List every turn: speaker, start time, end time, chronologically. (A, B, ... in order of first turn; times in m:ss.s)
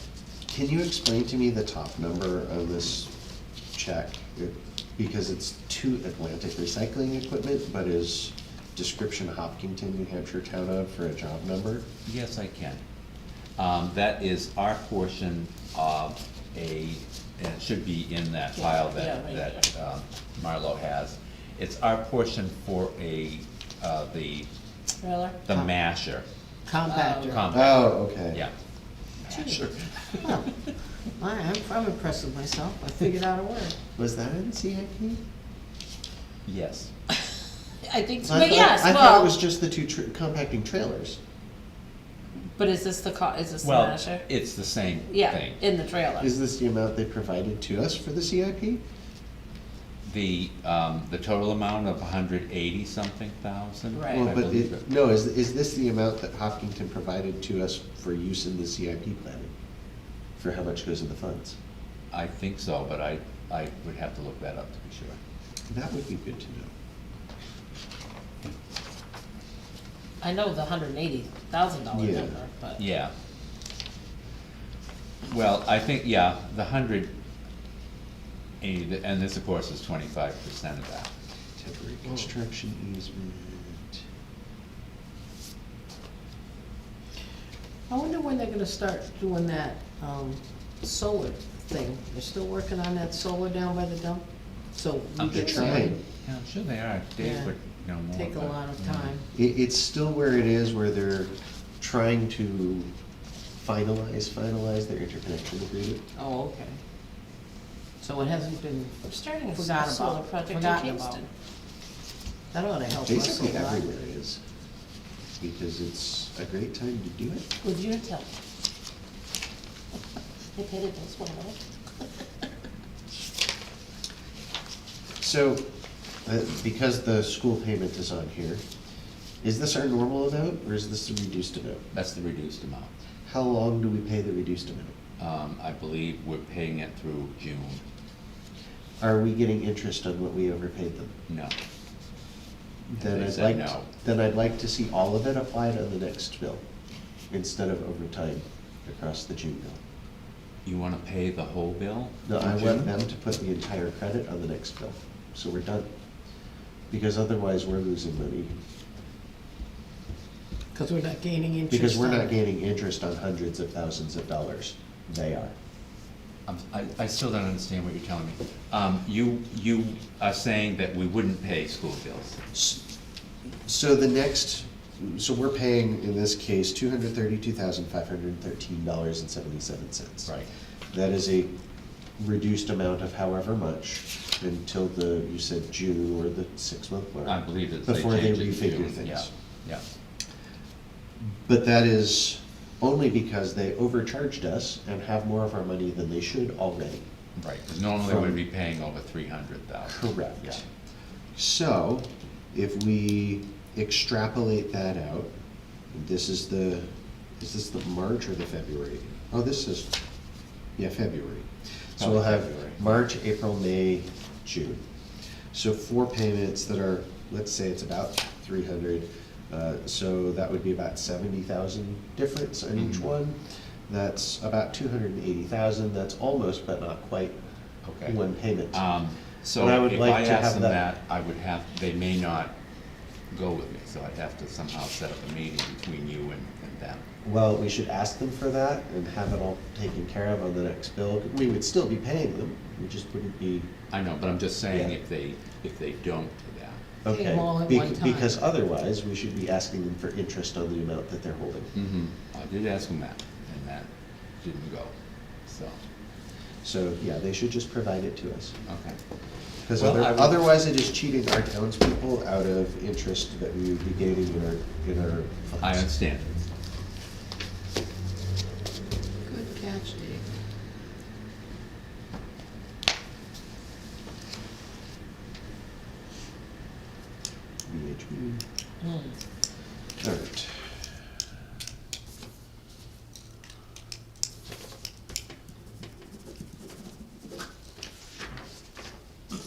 0:00.5-0:03.1 A
0:03.7-0:11.8 A
0:12.0-0:12.8 B
0:13.6-0:24.5 B
0:18.5-0:19.6 C
0:25.0-0:25.4 C
0:25.4-0:26.2 B
0:26.6-0:27.5 D
0:26.8-0:27.4 C
0:27.2-0:28.5 B
0:27.5-0:28.4 A
0:29.2-0:30.8 B
0:29.3-0:29.6 D
0:30.2-0:30.5 D
0:31.2-0:33.8 D
0:34.0-0:35.2 A
0:36.4-0:36.9 B
0:37.8-0:39.4 C
0:38.2-0:41.2 A
0:42.6-0:44.3 C
0:43.6-0:45.6 B
0:45.1-0:46.3 C
0:46.2-0:48.8 A
0:50.0-0:54.8 B
0:53.9-0:54.3 C
0:54.1-0:59.5 A
1:00.4-1:01.6 A
1:02.1-1:05.2 B
1:05.7-1:06.7 A
1:10.2-1:12.8 C
1:11.9-1:12.4 A
1:12.8-1:13.1 B
1:15.2-1:17.1 B
1:18.6-1:21.1 B
1:21.6-1:24.0 A
1:27.9-1:36.0 D
1:35.2-1:39.2 B
1:35.2-1:36.0 A
1:37.2-1:37.5 D
1:38.1-1:39.2 D
1:39.3-1:42.9 A
1:43.6-1:46.0 A
1:46.2-1:46.8 D
1:48.0-1:51.2 D
1:49.1-1:51.3 C
1:52.5-1:53.8 D
1:53.0-1:54.4 A
1:55.4-1:57.5 A
1:57.6-1:58.3 C
2:00.5-2:01.6 C
2:05.2-2:05.6 A
2:06.2-2:08.6 A
2:09.4-2:11.8 A
2:11.9-2:12.9 B
2:13.2-2:15.0 A
2:15.2-2:17.8 B
2:19.0-2:21.1 A
2:21.3-2:21.5 B
2:22.9-2:26.6 A
2:23.0-2:23.9 B
2:27.3-2:29.8 A
2:30.6-2:32.9 B
2:32.2-2:35.9 A
2:36.9-2:38.5 A
2:40.7-2:42.4 D
2:41.7-2:45.5 A
2:46.5-2:52.4 B
2:52.5-2:52.8 A
2:53.6-3:00.3 A
3:00.9-3:01.5 A
3:02.2-3:09.3 A
3:07.2-3:09.8 B
3:11.3-3:17.1 A
3:17.4-3:20.6 B
3:18.0-3:18.4 A
3:19.8-3:20.6 A
3:21.3-3:25.3 A
3:25.9-3:26.9 A
3:27.4-3:29.9 A
3:30.8-3:34.8 A
3:32.0-3:32.8 B
3:35.5-3:47.4 A
3:42.7-3:43.1 B
3:47.8-3:48.2 B
3:48.0-3:48.8 A
3:48.7-3:52.5 B
3:49.6-3:50.8 A
3:53.3-3:57.0 B
3:57.2-4:03.7 A
4:03.9-4:06.8 B
4:04.7-4:05.0 A
4:07.0-4:11.7 A
4:07.1-4:08.4 D
4:11.7-4:14.9 B
4:15.4-4:15.8 B
4:16.6-4:18.5 A
4:18.7-4:19.0 B
4:19.6-4:25.9 A
4:19.7-4:20.5 B
4:25.6-4:26.5 B
4:29.2-4:30.2 D
4:37.6-4:38.4 A
4:38.8-4:39.1 C
4:40.0-4:40.8 A